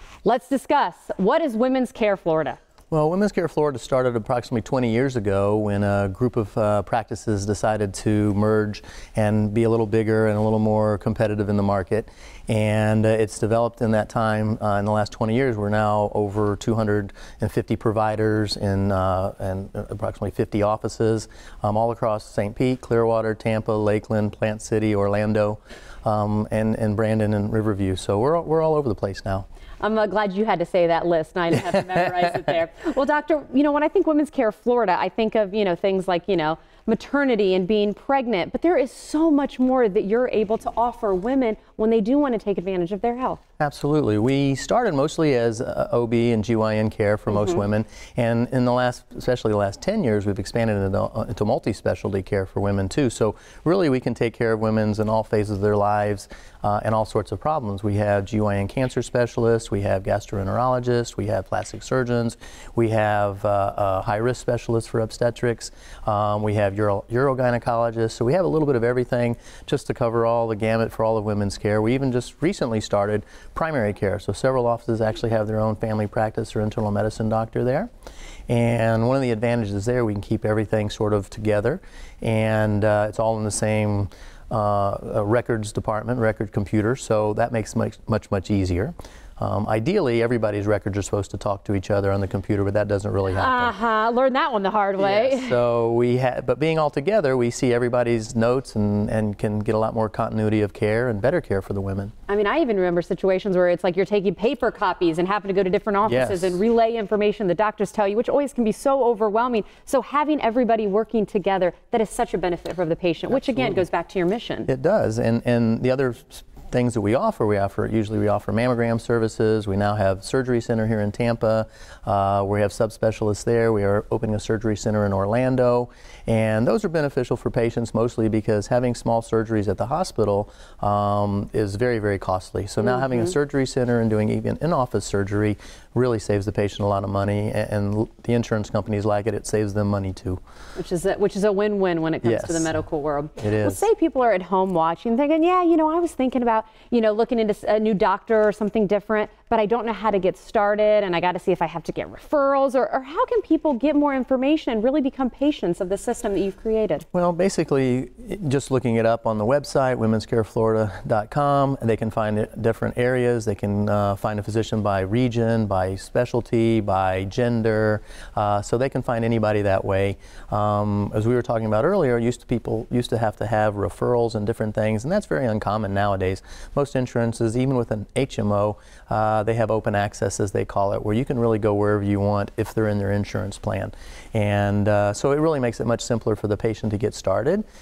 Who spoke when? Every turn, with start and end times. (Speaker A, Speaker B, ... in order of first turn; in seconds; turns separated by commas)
Speaker A: 0.2-2.6, Speaker B: 2.9-29.4, Speaker A: 29.8-43.4, Speaker B: 43.6-77.9, Speaker B: 78.5-93.7, Speaker A: 93.3-95.6, Speaker B: 95.0-102.1, Speaker A: 102.3-114.7, Speaker B: 106.0-106.6, Speaker B: 114.7-140.4, Speaker A: 140.8-157.0, Speaker B: 142.2-142.7, Speaker B: 143.4-143.8, Speaker B: 157.1-187.6